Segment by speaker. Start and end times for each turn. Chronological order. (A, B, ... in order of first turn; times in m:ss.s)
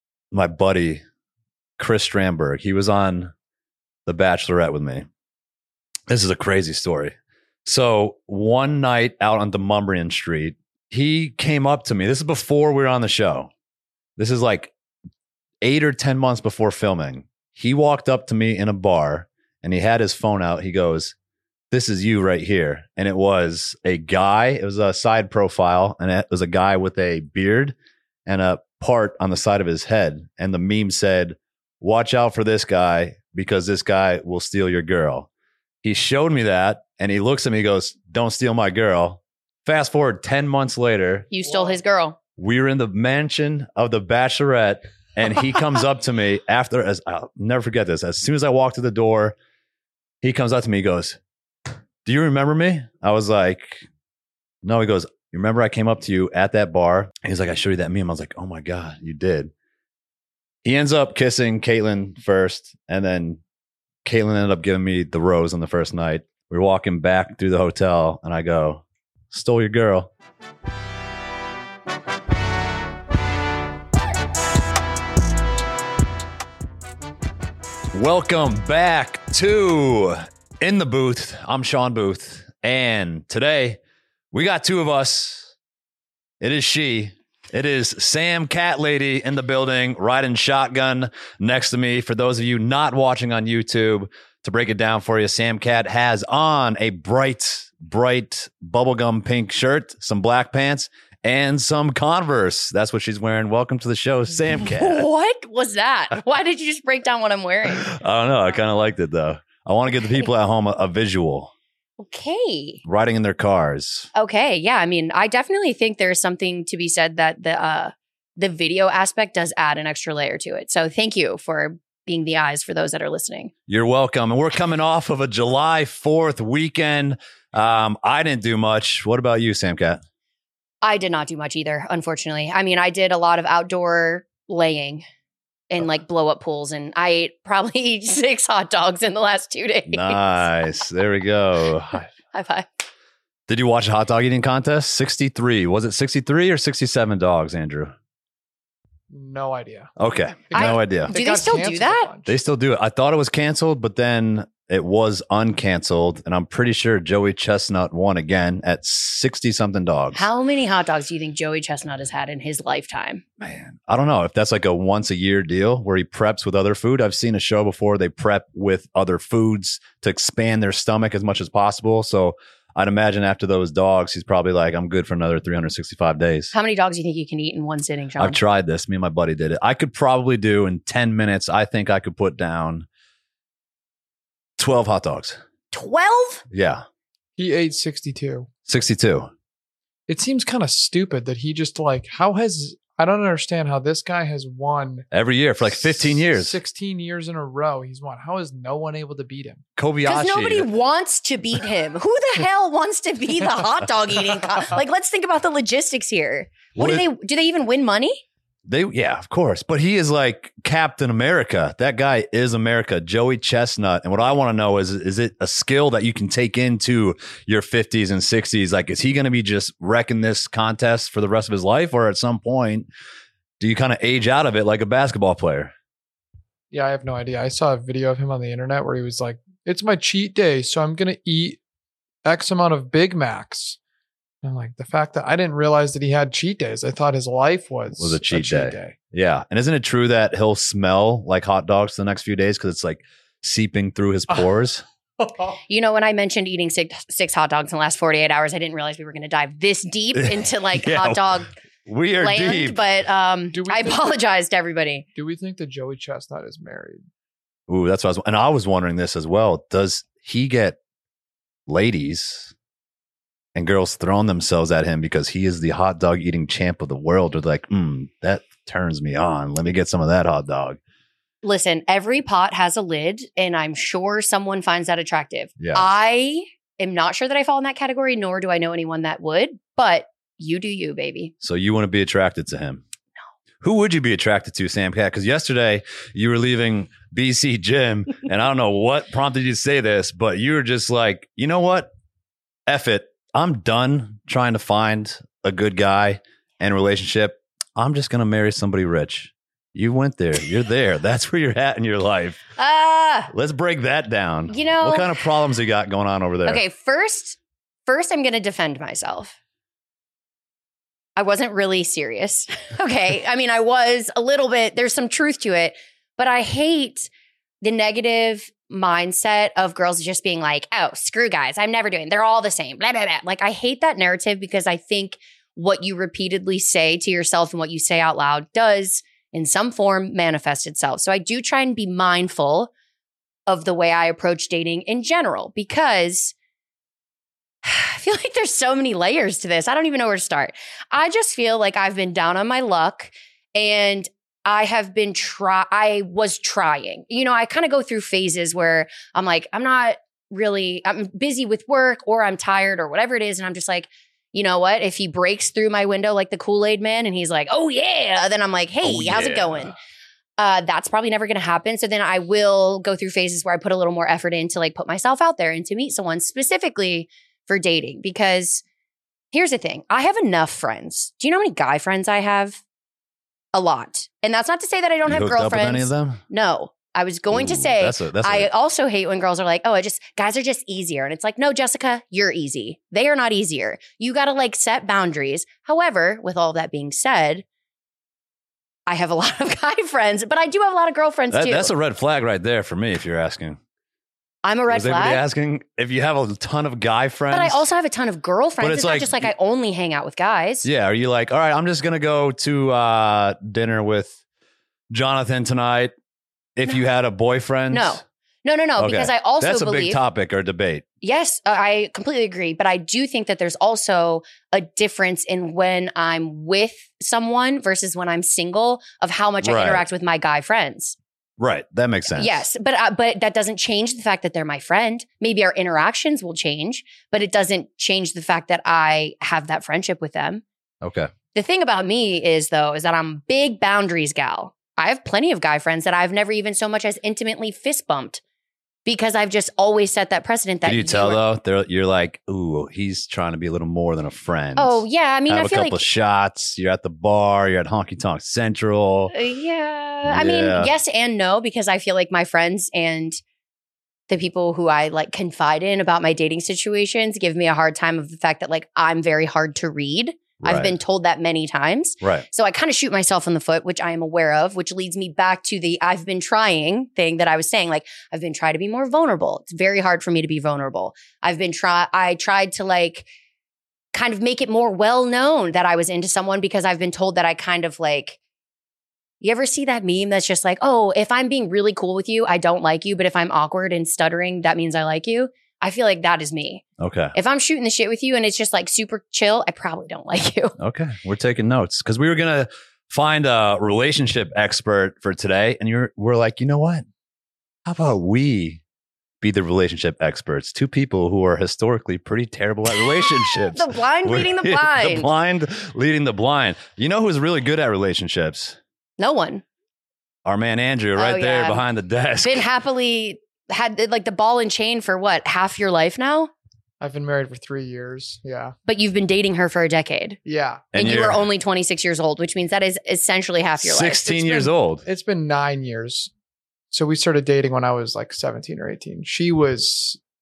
0:00.3-0:01.0 A
0:01.8-0:03.3 A
0:04.1-0:05.1 A
0:06.1-0:07.1 A
0:07.6-0:13.5 A
0:14.2-0:14.7 A
0:15.6-0:21.1 A
0:21.7-0:27.8 A
0:28.3-0:35.3 A
0:35.8-0:41.3 A
0:41.3-0:42.2 B
0:42.4-0:49.4 A
0:50.2-0:51.2 A
0:52.0-0:53.9 A
0:54.6-0:59.5 A
1:00.6-1:03.4 A
1:04.0-1:10.1 A
1:17.9-1:23.8 A
1:24.3-1:25.5 A
1:26.4-1:45.1 A
1:44.6-1:47.9 B
1:47.8-1:51.5 A
1:52.0-1:52.8 B
1:52.8-1:54.1 A
1:54.2-2:03.5 B
2:03.7-2:10.0 A
2:10.8-2:15.0 B
2:15.7-2:20.7 B
2:19.9-2:22.1 A
2:22.3-2:22.7 B
2:23.5-2:27.9 A
2:29.1-2:29.9 C
2:30.0-2:31.2 A
2:30.5-2:32.4 C
2:30.5-2:32.1 B
2:32.3-2:40.3 A
2:40.2-2:43.2 B
2:43.4-2:56.5 A
2:56.5-2:58.4 B
2:58.2-3:02.9 A
3:04.6-3:05.4 A
3:05.7-3:06.4 B
3:06.5-3:06.8 A
3:07.4-3:08.5 C
3:08.7-3:09.3 A
3:10.1-3:15.1 C
3:15.1-3:16.6 A
3:15.7-3:19.6 C
3:19.8-3:20.7 A
3:20.1-3:28.2 B
3:26.8-3:27.1 A
3:28.7-3:42.9 A
3:43.6-3:45.7 A
3:46.7-3:51.6 C
3:52.2-3:53.8 C
3:54.4-3:59.0 C
3:58.0-4:04.8 A
4:05.7-4:11.5 B
4:10.2-4:11.2 A
4:11.9-4:12.8 A
4:12.2-4:15.0 B
4:13.5-4:14.1 C
4:15.2-4:17.0 C
4:17.7-4:20.8 A
4:21.7-4:22.5 A
4:23.6-4:30.8 A
4:31.4-4:41.3 B
4:35.6-4:35.9 A
4:41.4-4:42.8 A
4:43.6-4:51.9 A
4:52.7-5:02.4 A
5:02.6-5:03.3 B
5:03.3-5:06.6 A
5:04.5-5:05.2 B
5:06.5-5:09.4 B
5:11.2-5:17.1 B
5:17.6-5:32.7 B
5:33.5-5:36.3 B
5:37.6-5:59.7 B
5:58.8-5:59.8 A
6:00.4-6:08.6 B
6:09.3-6:12.6 B
6:13.5-6:27.4 B
6:15.1-6:16.2 A
6:17.3-6:18.5 A
6:28.9-6:31.7 B
6:31.3-6:33.6 A
6:34.4-6:35.2 B
6:34.7-6:37.6 A
6:37.3-6:40.7 B
6:38.6-6:39.3 A
6:40.6-6:44.2 A
6:44.9-6:45.9 A
6:46.6-6:48.0 A
6:47.7-6:50.0 B
6:48.8-6:50.8 A
6:51.0-7:01.0 B
6:59.4-6:59.8 A
7:01.4-7:02.4 A
7:02.2-7:10.4 B
7:10.8-7:11.1 A
7:11.3-7:18.2 B
7:18.9-7:21.2 B
7:20.6-7:29.1 A
7:24.6-7:25.8 B
7:29.1-7:33.2 B
7:30.0-7:30.7 A
7:34.1-7:53.1 B
7:40.4-7:40.8 A
7:53.9-7:58.2 B
7:59.2-8:06.6 B
8:06.8-8:07.1 A
8:07.1-8:10.6 B
8:10.6-8:16.8 A
8:17.7-8:18.6 A
8:19.2-8:28.6 A
8:23.1-8:25.1 B
8:29.0-8:29.4 B
8:30.2-8:32.4 A
8:31.0-8:31.6 B
8:32.2-8:36.3 B
8:36.8-8:38.5 C
8:38.7-8:40.2 B
8:40.2-8:40.7 C
8:40.7-8:41.2 A
8:40.8-8:44.2 B
8:43.6-8:44.8 A
8:44.1-8:46.1 C
8:46.7-8:50.0 C